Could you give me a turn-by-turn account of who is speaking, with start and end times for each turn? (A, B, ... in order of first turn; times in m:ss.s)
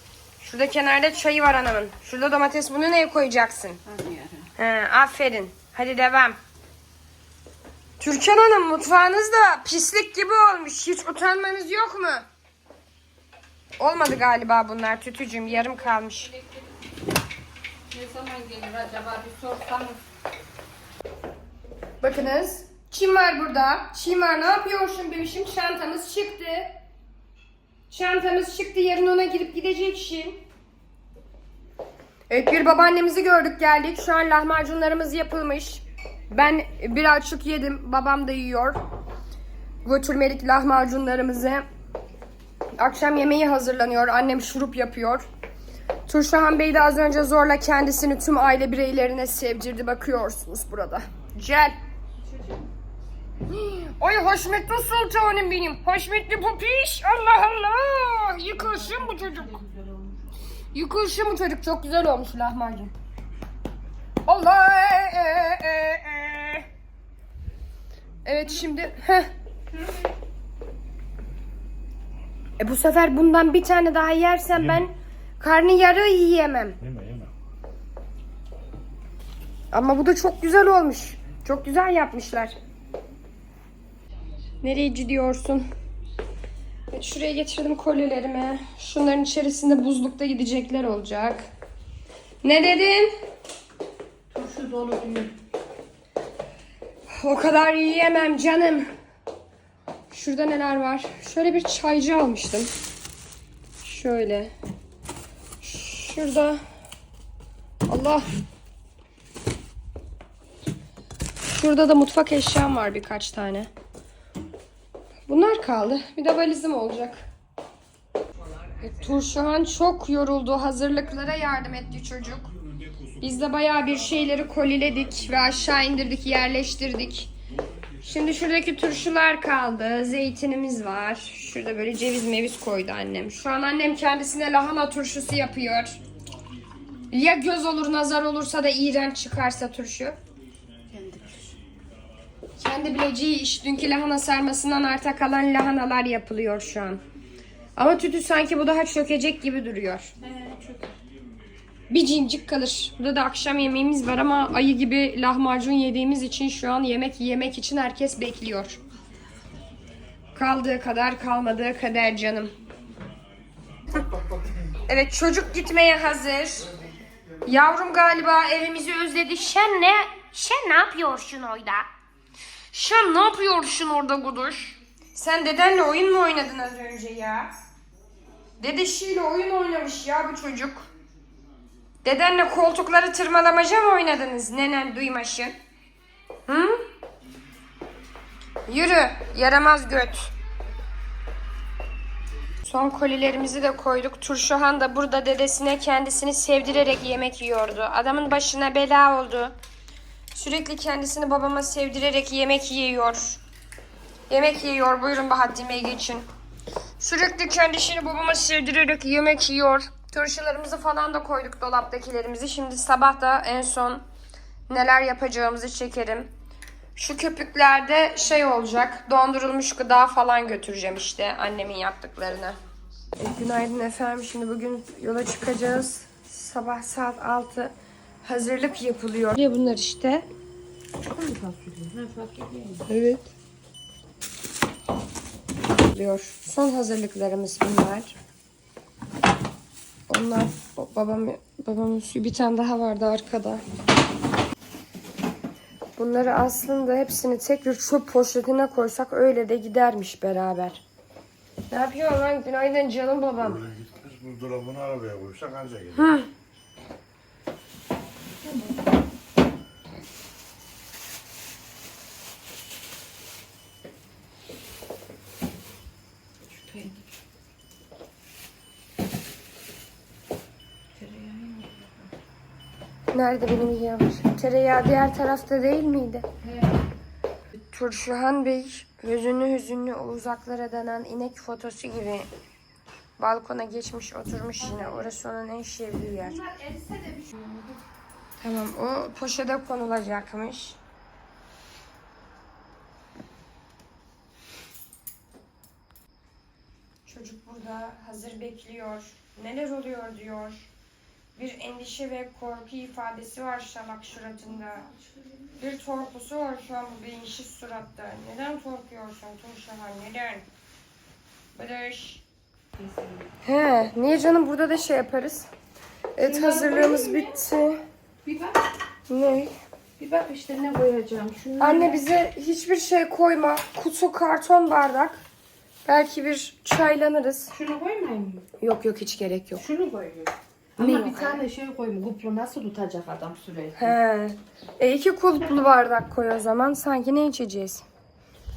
0:00.4-0:03.8 A
0:03.8-0:04.5 B
0:04.6-0:06.4 A
0:08.0-0:12.2 A
0:13.8-0:16.4 A
0:17.9-0:20.0 B
0:22.0-0:26.7 A
0:27.9-0:30.4 A
0:32.3-0:38.8 A
0:39.8-0:41.6 A
0:42.8-0:45.2 A
0:46.1-0:51.8 A
0:53.4-0:59.6 A
0:58.6-1:00.2 B
1:00.7-1:02.9 A
1:04.2-1:06.7 A
1:08.2-1:09.3 A
1:09.8-1:10.0 B
1:12.6-1:16.8 A
1:16.8-1:17.3 C
1:19.7-1:22.5 A
1:24.6-1:25.7 A
1:26.9-1:31.5 A
1:32.4-1:33.1 A
1:34.3-1:35.3 B
1:37.1-1:38.9 A
1:40.1-1:42.7 A
1:43.8-1:44.5 A
1:45.6-1:46.6 A
1:47.9-1:48.2 A
1:51.5-1:53.7 A
1:55.3-1:57.2 A
1:58.8-2:02.5 A
2:03.2-2:07.3 A
2:08.0-2:16.0 A
2:17.1-2:20.2 A
2:20.9-2:21.5 B
2:22.6-2:27.0 A
2:27.8-2:30.1 A
2:30.2-2:31.0 B
2:31.9-2:38.8 A
2:40.3-2:42.5 A
2:44.9-2:46.7 A
2:47.4-2:51.9 A
2:52.7-2:57.5 A
2:58.6-3:00.8 A
3:02.0-3:05.5 A
3:06.5-3:06.8 A
3:08.7-3:10.3 A
3:12.6-3:19.5 A
3:20.3-3:23.4 A
3:24.3-3:26.2 A
3:27.0-3:34.0 A
3:34.7-3:36.3 A
3:37.0-3:42.6 A
3:43.2-3:50.2 A
3:51.0-3:52.8 B
3:52.9-3:53.3 A
3:55.8-3:58.1 A
4:00.1-4:03.6 A
4:06.0-4:10.8 A
4:11.7-4:13.7 A
4:13.5-4:16.2 C
4:16.0-4:16.3 A
4:26.5-4:27.1 B
4:30.9-4:32.1 B
4:33.1-4:36.3 A
4:36.4-4:36.7 B
4:37.6-4:42.3 A
4:43.2-4:46.4 A
4:44.7-4:45.0 B
4:46.3-4:47.8 B
4:48.4-4:50.8 A
4:57.0-5:00.7 A
5:01.4-5:04.9 A
5:05.6-5:10.4 A
5:11.5-5:12.2 A
5:12.8-5:13.3 B
5:13.4-5:15.5 A
5:16.2-5:17.8 A
5:16.2-5:17.2 B
5:18.2-5:18.6 B
5:19.1-5:19.5 A
5:20.0-5:22.0 B
5:21.6-5:25.2 A
5:25.8-5:27.5 A
5:27.5-5:28.4 B
5:28.6-5:29.6 A
5:29.6-5:33.9 B
5:30.8-5:31.4 A
5:33.7-5:37.8 A